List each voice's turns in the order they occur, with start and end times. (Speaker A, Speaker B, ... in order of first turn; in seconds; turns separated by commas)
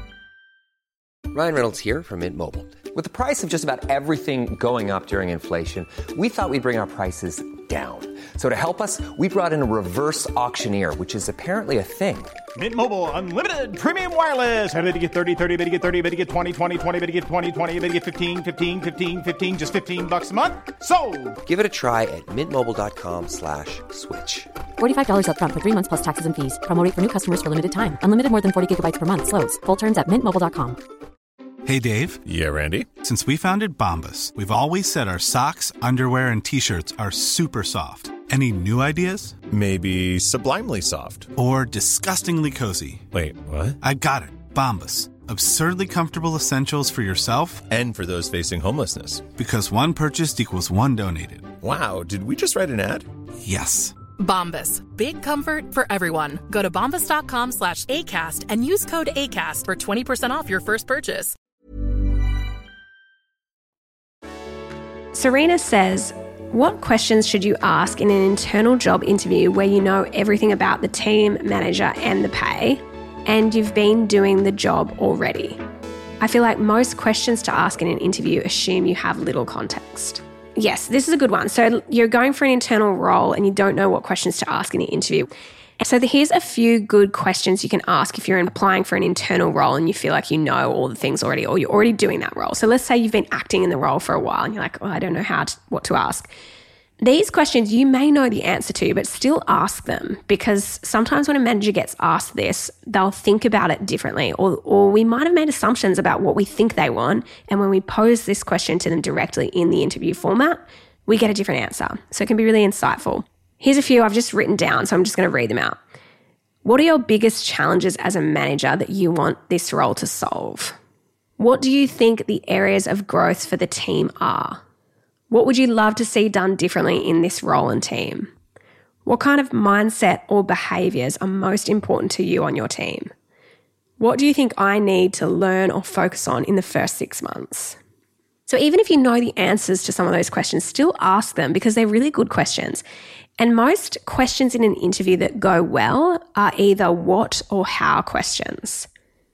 Speaker A: 1.3-12.3, Speaker B: 12.5-21.4, Speaker A: 21.4-24.5, Speaker C: 24.8-30.8, Speaker D: 31.6-32.2, Speaker E: 32.2-32.9, Speaker D: 32.9-39.4, Speaker E: 39.5-41.3, Speaker D: 41.3-43.0, Speaker E: 43.1-43.8, Speaker D: 43.8-47.7, Speaker E: 47.7-49.3, Speaker D: 49.3-51.5, Speaker E: 51.6-53.1, Speaker D: 53.4-54.0, Speaker F: 54.2-61.3, Speaker G: 65.1-75.6, Speaker G: 76.2-96.3, Speaker G: 97.0-115.8, Speaker G: 116.6-120.8, Speaker G: 121.4-124.6, Speaker G: 125.3-128.3, Speaker G: 129.1-133.1, Speaker G: 134.0-137.8, Speaker G: 138.5-142.8, Speaker G: 143.4-148.9